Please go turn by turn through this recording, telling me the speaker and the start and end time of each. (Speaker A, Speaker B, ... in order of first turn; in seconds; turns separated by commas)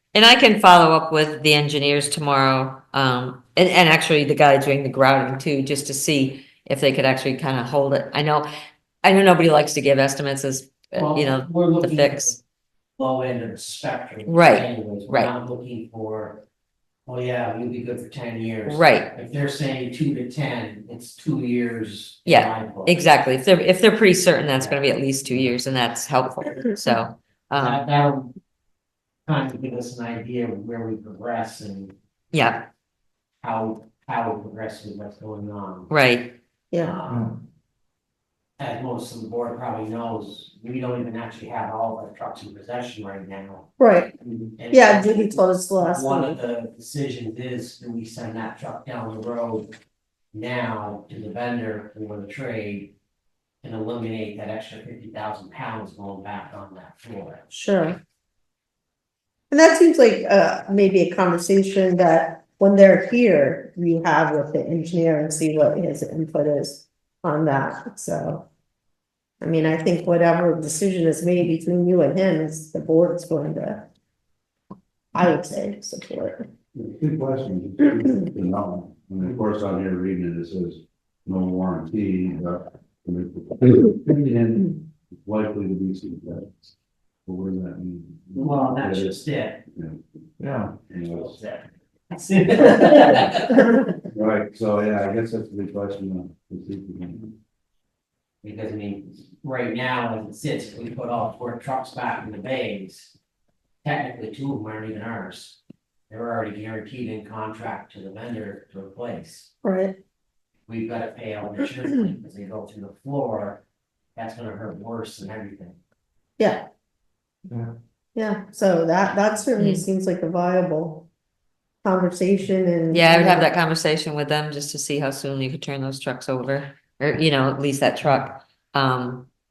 Speaker A: 0.1-8.5, Speaker A: 9.0-12.4, Speaker B: 10.9-12.4, Speaker B: 13.0-16.4, Speaker A: 14.3-15.3, Speaker B: 17.1-23.0, Speaker A: 18.7-19.1, Speaker A: 22.3-27.8, Speaker B: 27.6-28.3, Speaker B: 29.3-31.9, Speaker A: 32.3-32.7, Speaker B: 33.4-35.9, Speaker A: 35.9-36.4, Speaker C: 36.7-37.0, Speaker B: 36.8-37.4, Speaker B: 38.6-43.8, Speaker C: 43.8-44.1, Speaker B: 44.6-49.7, Speaker C: 44.7-46.4, Speaker B: 50.3-52.9, Speaker B: 53.6-57.5, Speaker C: 57.5-58.0, Speaker C: 59.5-68.5, Speaker C: 69.4-73.9, Speaker C: 75.1-76.5, Speaker D: 76.8-86.7, Speaker D: 87.3-90.0, Speaker B: 88.4-89.6, Speaker D: 90.6-91.4, Speaker B: 91.2-93.9, Speaker D: 94.1-97.3, Speaker B: 98.4-103.1, Speaker B: 103.8-105.6, Speaker B: 106.1-109.5, Speaker C: 109.6-110.0, Speaker B: 110.7-113.6, Speaker B: 114.2-115.8, Speaker C: 116.4-116.6, Speaker C: 118.2-121.1, Speaker A: 119.6-119.8, Speaker C: 121.8-123.5, Speaker A: 122.9-129.3